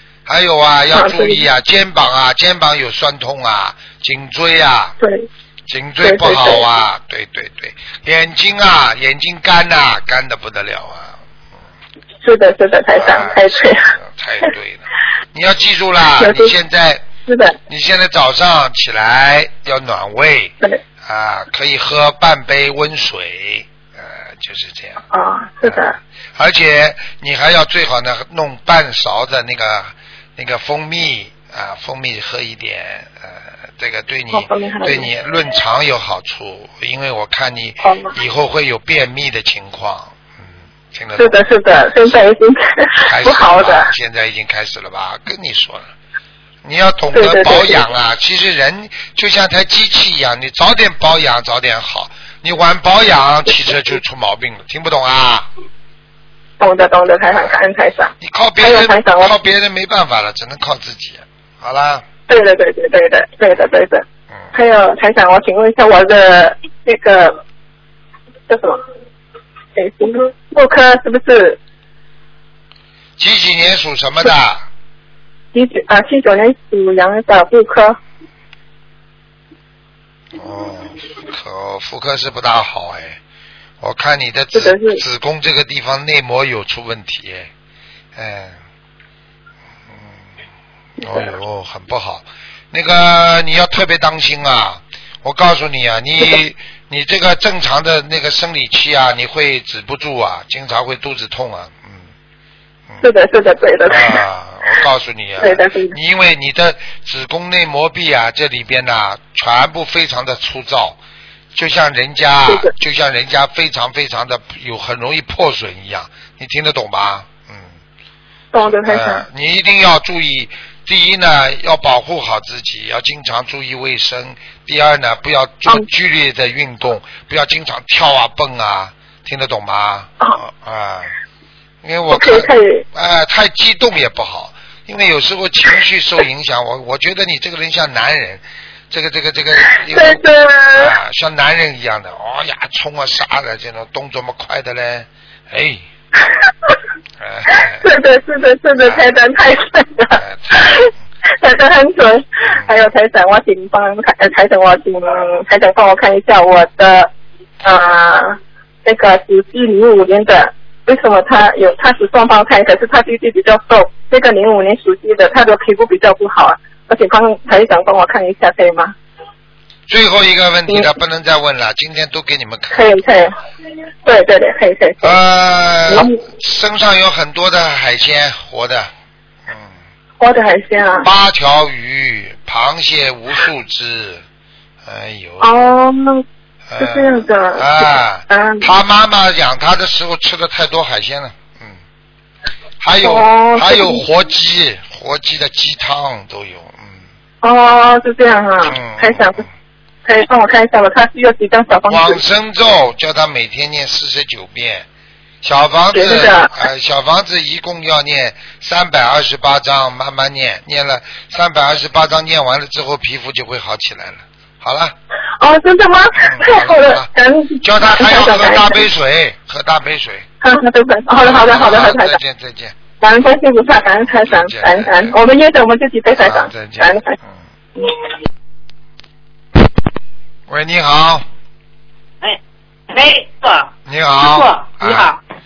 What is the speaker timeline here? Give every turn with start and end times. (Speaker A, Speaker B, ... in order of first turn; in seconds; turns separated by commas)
Speaker A: 0.2-5.0, Speaker B: 0.9-1.4, Speaker B: 5.0-5.3, Speaker A: 5.7-11.2, Speaker B: 6.0-6.7, Speaker B: 12.2-13.9, Speaker A: 12.9-17.0, Speaker B: 16.2-16.5, Speaker B: 17.3-17.6, Speaker A: 17.7-25.0, Speaker B: 25.1-25.9, Speaker A: 25.6-41.4, Speaker B: 34.3-35.1, Speaker B: 37.8-38.1, Speaker B: 41.2-43.9, Speaker A: 43.0-45.9, Speaker A: 46.6-55.5, Speaker B: 47.1-47.9, Speaker B: 56.6-59.3, Speaker A: 57.2-57.5, Speaker A: 58.2-62.0, Speaker B: 62.3-67.4, Speaker B: 68.5-68.8, Speaker B: 69.7-71.6, Speaker A: 73.2-74.6, Speaker B: 75.5-78.0, Speaker A: 80.3-83.2, Speaker A: 83.8-87.5, Speaker B: 84.5-85.0, Speaker A: 88.1-88.6, Speaker A: 89.9-90.2, Speaker A: 91.0-102.1, Speaker B: 103.0-104.2, Speaker A: 103.8-111.0, Speaker B: 105.4-106.0, Speaker A: 111.5-117.7, Speaker B: 118.5-119.2, Speaker A: 118.7-131.1, Speaker A: 131.8-140.2, Speaker B: 132.1-132.8, Speaker B: 139.7-140.9, Speaker A: 140.7-145.8, Speaker A: 147.2-147.8, Speaker B: 147.5-157.1, Speaker A: 148.8-149.1, Speaker A: 150.2-150.9, Speaker A: 152.5-152.7, Speaker B: 157.6-168.9, Speaker A: 169.9-172.9, Speaker B: 172.7-173.3, Speaker B: 174.0-175.2, Speaker A: 175.0-178.9, Speaker B: 175.9-176.2, Speaker A: 179.5-179.7, Speaker B: 180.2-181.1, Speaker A: 181.0-184.2, Speaker A: 184.8-185.7, Speaker B: 185.4-186.2, Speaker A: 186.7-191.8, Speaker B: 186.8-187.7, Speaker B: 188.3-188.7, Speaker A: 192.8-197.0, Speaker B: 193.0-194.0, Speaker B: 197.4-199.4, Speaker A: 198.6-199.5, Speaker B: 200.0-202.2, Speaker A: 201.9-204.9, Speaker A: 205.4-214.9, Speaker B: 205.9-206.6, Speaker B: 215.4-218.8, Speaker A: 216.1-217.1, Speaker A: 217.6-220.2, Speaker B: 220.4-222.2, Speaker A: 221.2-222.8, Speaker B: 223.0-227.1, Speaker A: 224.0-225.2, Speaker A: 226.2-227.4, Speaker A: 230.5-231.2, Speaker C: 232.2-235.2, Speaker A: 233.8-235.1